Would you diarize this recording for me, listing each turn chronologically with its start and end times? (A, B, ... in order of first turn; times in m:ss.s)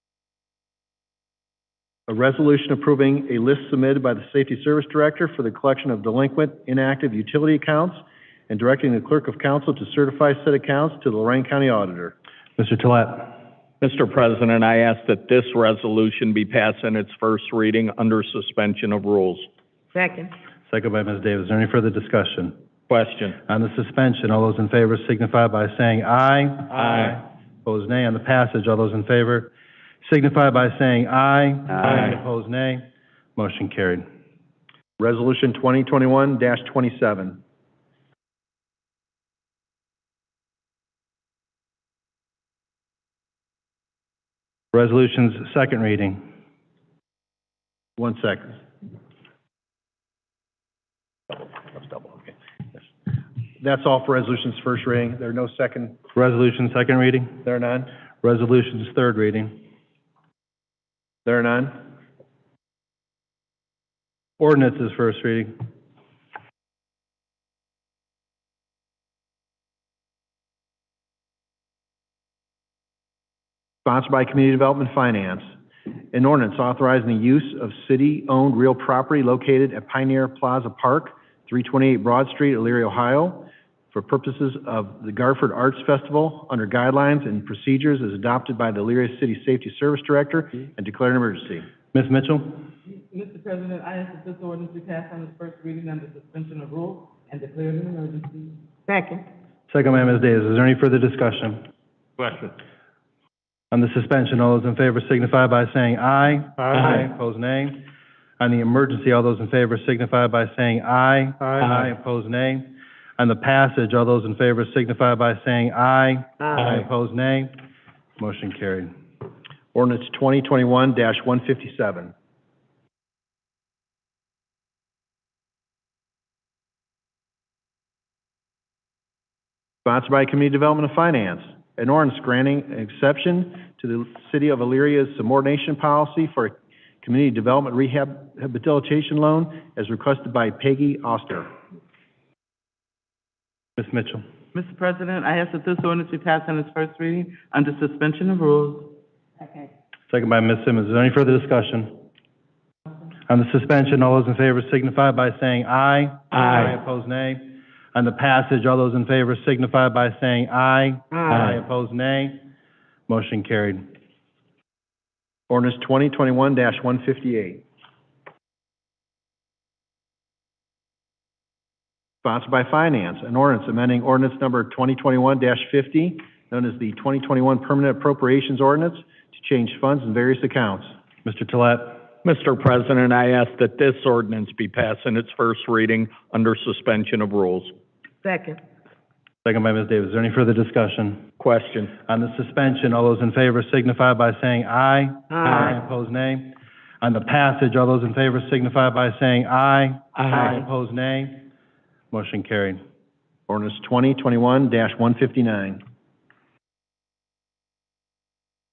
0:02.1-0:12.1 A
0:12.6-0:13.4 B
0:13.8-0:19.5 C
0:19.9-0:20.3 D
0:20.7-0:22.6 B
0:22.9-0:23.4 C
0:23.4-0:27.1 B
0:26.7-0:27.2 C
0:27.6-0:34.0 B
0:31.7-0:32.2 C
0:35.0-0:37.4 A
0:44.7-0:46.2 B
0:48.0-0:48.6 A
0:51.3-0:52.3 A
0:53.6-0:56.0 A
0:56.1-0:57.4 B
0:57.4-0:57.9 A
0:58.2-0:59.6 B
1:01.2-1:01.9 A
1:04.4-1:05.5 B
1:13.8-1:15.5 A
1:16.1-1:31.7 A
1:31.9-1:32.6 B
1:33.1-1:38.6 E
1:38.9-1:39.2 D
1:39.7-1:41.6 B
1:43.7-1:47.9 B
1:48.4-1:57.5 B
1:58.2-1:58.9 B
1:59.7-2:02.1 A
2:09.8-2:21.5 A
2:23.8-2:24.2 B
2:24.5-2:28.9 E
2:30.1-2:31.9 B
2:33.3-2:42.4 B
2:36.3-2:36.7 C
2:41.1-2:41.4 D
2:41.3-2:41.6 C
2:43.1-2:43.8 B
2:45.5-2:47.6 A
2:52.2-3:00.9 A
3:01.2-3:02.1 B
3:02.2-3:07.7 C
3:08.2-3:08.6 D
3:09.4-3:11.2 B
3:11.4-3:11.9 C
3:12.1-3:21.5 B
3:15.3-3:15.7 D
3:15.4-3:15.7 C
3:20.2-3:20.5 C
3:22.1-3:22.8 B
3:23.5-3:25.8 A